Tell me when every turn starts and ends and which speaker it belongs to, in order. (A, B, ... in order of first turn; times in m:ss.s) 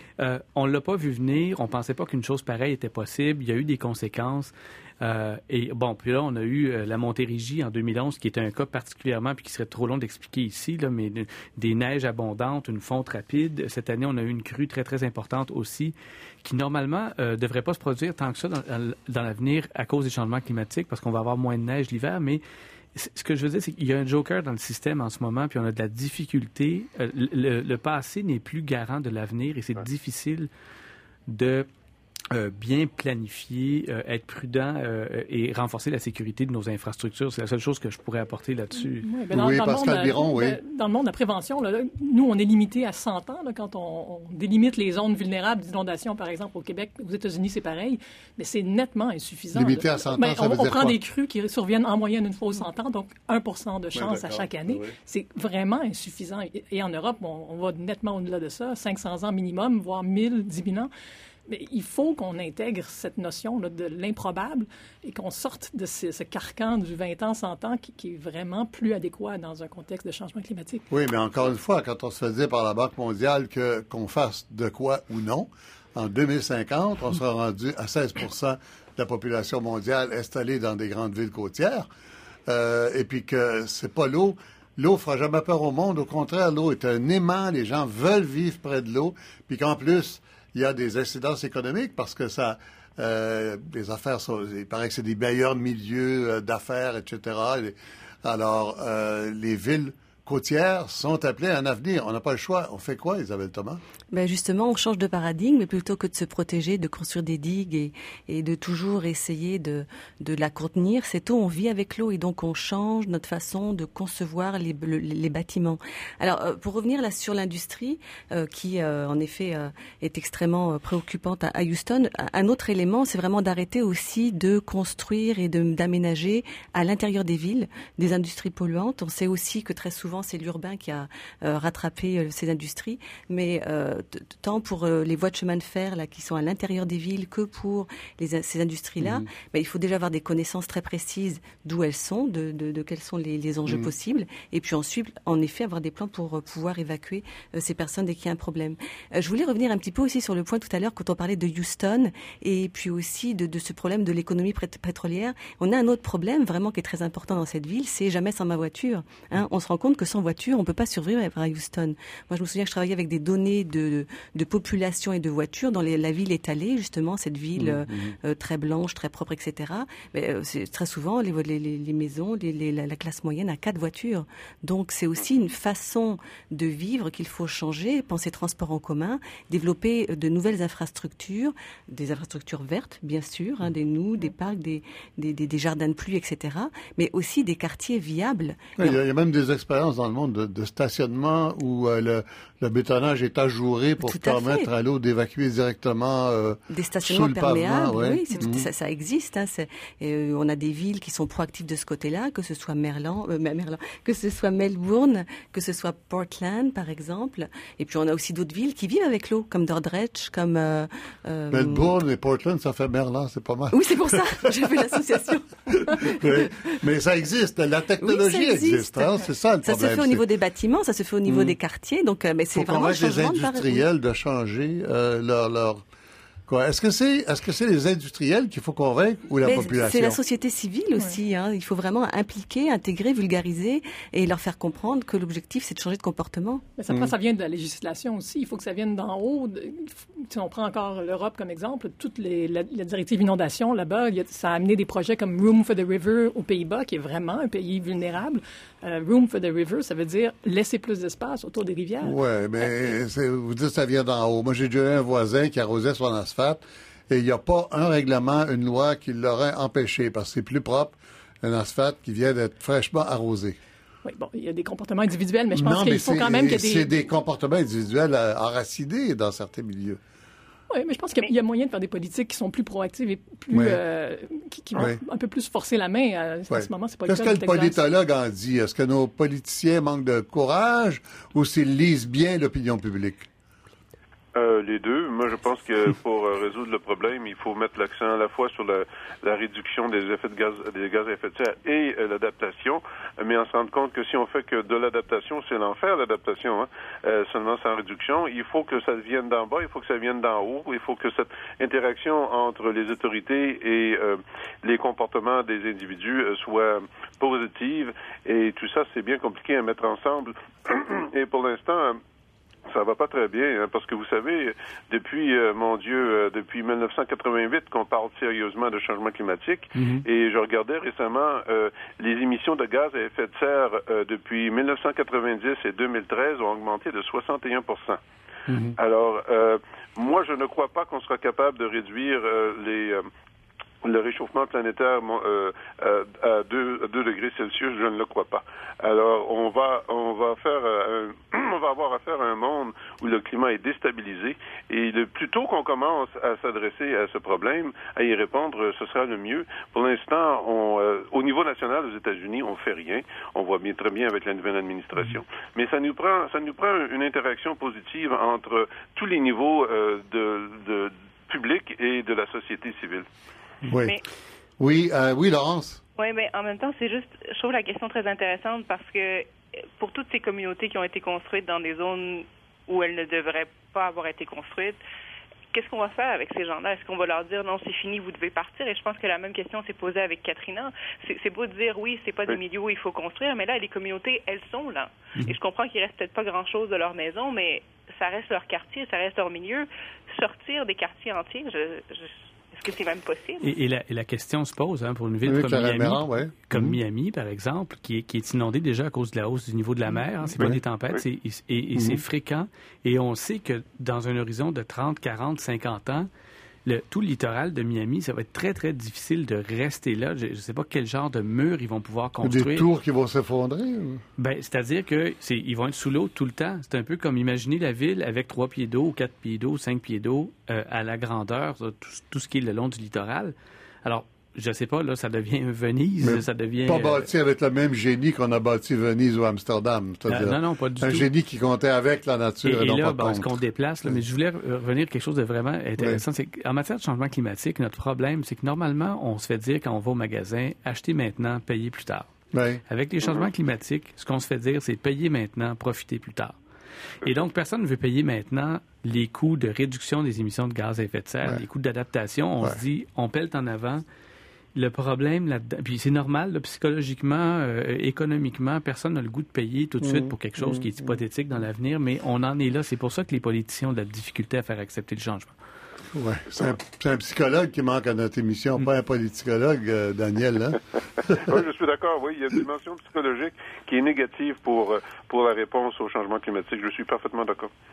0:00.2-0:22.4 A
0:22.9-0:30.5 A
0:31.3-0:31.7 A
0:32.3-0:39.1 A
0:39.0-1:00.9 B
0:39.3-0:40.6 C
0:49.5-0:51.0 C
0:53.9-0:55.0 C
1:01.5-1:10.8 B
1:10.9-1:21.9 C
1:22.5-1:43.8 C
1:44.1-3:09.0 D
2:19.0-2:19.3 C
2:47.6-2:48.2 C
3:08.8-3:18.7 C
3:14.0-3:14.7 D
3:16.7-3:31.9 D
3:31.5-3:34.8 C
3:33.7-3:36.7 D
3:35.7-3:40.2 C
3:38.0-3:43.8 D
3:41.3-3:41.6 C
3:42.5-3:45.8 C
3:46.5-3:50.2 C
3:49.4-3:56.7 D
3:56.8-4:12.2 B
4:12.0-4:23.6 C
4:24.0-4:26.9 B
4:25.6-4:30.0 C
4:30.7-4:37.8 B
4:33.5-4:33.8 C
4:36.5-4:43.3 C
4:44.4-5:12.0 E
5:12.7-5:28.0 E
5:19.8-5:20.0 C
5:28.5-5:28.8 C
5:28.8-5:33.1 E
5:33.8-6:03.1 E
6:03.7-6:04.0 C
6:04.6-6:05.8 C
6:06.0-6:14.8 F
6:15.5-6:33.5 F
6:33.4-6:46.1 A
6:35.2-6:36.8 C
6:41.8-6:42.0 C
6:46.6-6:52.7 A
6:52.2-6:54.0 C
6:54.2-7:07.1 A
7:06.0-7:14.0 C
7:10.1-7:11.1 A
7:12.4-7:22.1 A
7:15.8-7:16.0 C
7:22.3-7:22.6 C
7:22.7-7:26.4 A
7:27.0-7:33.8 A
7:34.6-7:45.4 A
7:39.8-7:40.9 C
7:45.9-7:51.4 C
7:51.2-7:57.5 E